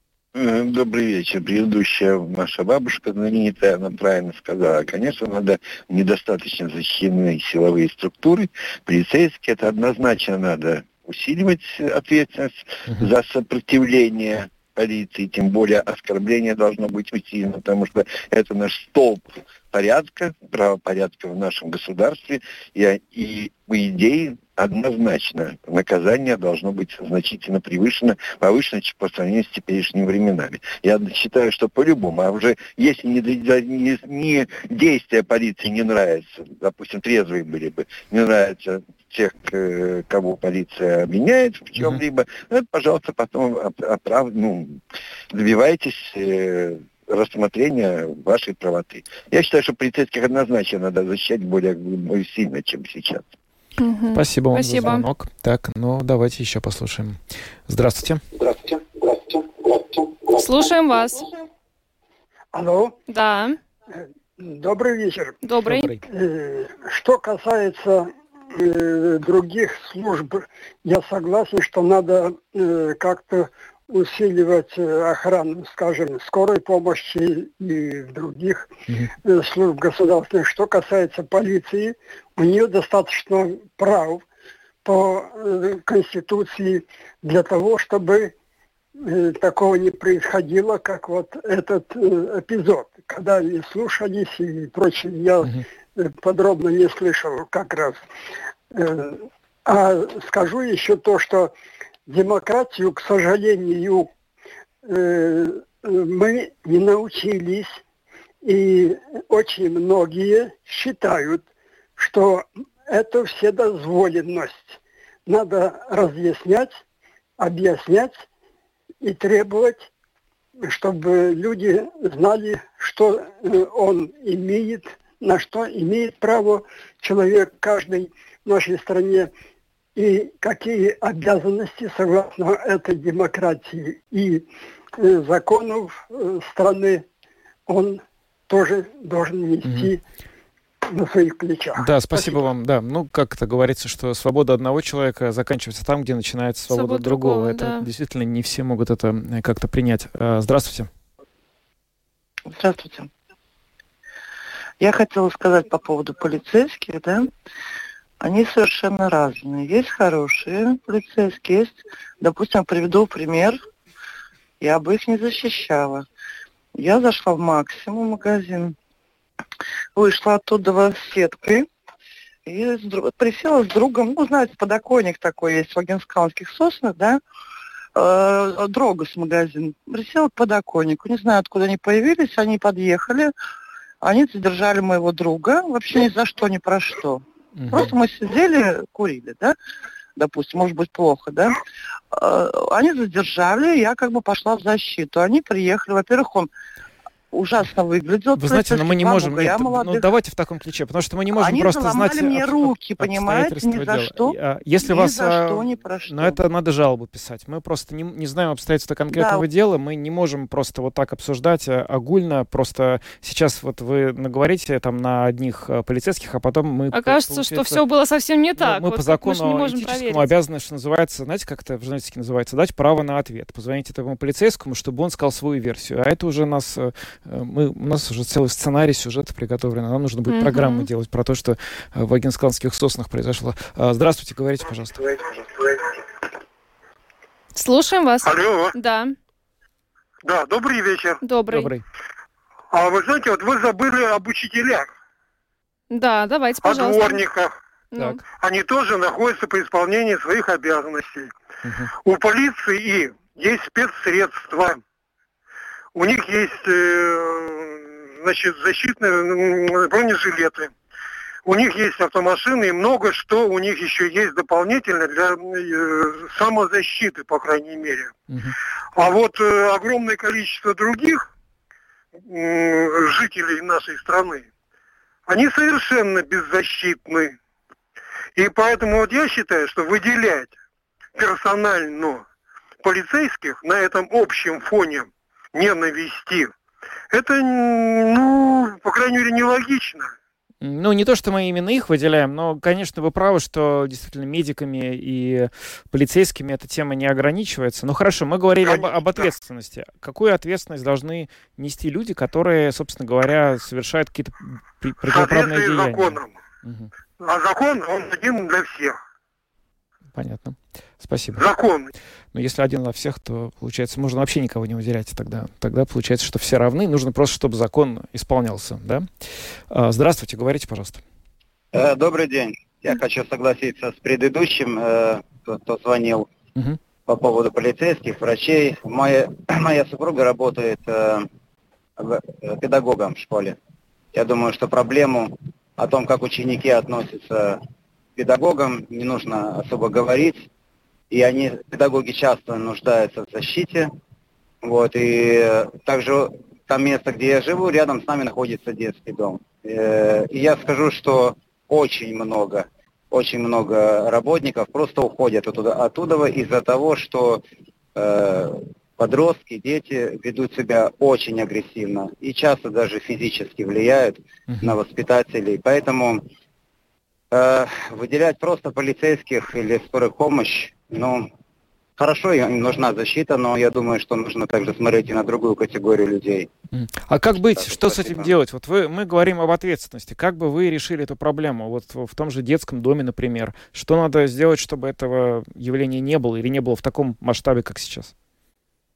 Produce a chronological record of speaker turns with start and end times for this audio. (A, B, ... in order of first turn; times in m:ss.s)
0:00.3-0:53.3 A
0:53.8-0:55.1 B
0:54.1-0:58.2 C
1:00.3-1:01.3 B
1:02.5-1:03.0 D
1:03.1-1:03.6 B
1:04.0-1:05.4 D
1:05.4-1:05.9 B
1:05.6-1:06.0 C
1:06.0-1:18.7 D
1:19.2-1:24.2 D
1:24.8-1:28.3 D
1:29.0-1:38.0 D
1:38.7-1:41.5 D
1:42.1-1:44.1 D
1:44.8-1:47.8 D
1:48.4-1:51.5 D
1:52.0-1:56.8 D
1:57.4-1:58.2 D
1:59.0-1:59.9 D
2:00.6-2:09.3 D
2:10.0-2:17.1 D
2:17.7-2:20.0 D
2:20.9-2:22.4 D
2:21.8-2:30.9 C
2:26.7-2:27.9 B
2:32.5-2:33.1 E
2:34.8-2:37.3 E
2:38.2-2:43.6 E
2:44.6-2:46.1 E
2:46.8-2:48.8 E
2:50.0-2:51.6 E
2:52.5-2:57.2 E
2:58.0-3:03.3 E
3:04.0-3:09.6 E
3:07.6-3:07.9 C
3:10.2-3:11.6 E
3:12.1-3:16.5 E
3:17.3-3:20.1 E
3:18.4-3:37.8 C
3:21.3-3:26.4 E
3:29.1-3:29.4 E
3:36.9-3:40.3 B
3:38.6-3:55.2 C
3:50.3-3:50.9 B
3:57.6-3:59.1 B
3:58.2-3:58.7 F
4:00.2-4:01.2 F
4:01.2-4:01.7 B
4:01.5-4:01.8 C
4:02.7-4:04.9 F
4:05.9-4:07.2 B
4:06.6-4:07.5 F
4:07.9-4:08.2 B
4:08.3-4:11.3 F
4:11.6-4:11.9 C
4:12.0-4:14.8 F
4:16.0-4:20.7 F
4:21.5-4:28.1 F
4:29.0-4:31.2 F
4:32.2-4:34.5 F
4:35.3-4:37.4 F
4:38.4-4:40.6 F
4:41.2-4:42.2 F
4:42.8-4:46.5 F
4:47.1-4:50.1 F
4:50.6-5:06.9 C
4:58.6-4:59.0 F
5:05.1-5:06.4 F
5:07.2-5:09.0 F
5:10.1-5:11.5 C
5:11.4-5:11.9 F
5:12.3-5:19.1 C
5:19.7-5:21.0 C
5:21.7-5:26.3 G
5:27.1-5:31.3 G
5:32.0-5:33.6 G
5:34.1-5:37.6 G
5:38.2-5:40.5 G
5:41.1-5:43.9 G
5:44.6-5:57.4 G
5:58.0-6:06.2 G
6:04.5-6:04.8 C
6:07.3-6:11.3 G
6:12.0-6:16.5 G
6:16.7-6:28.1 C
6:17.6-6:18.3 G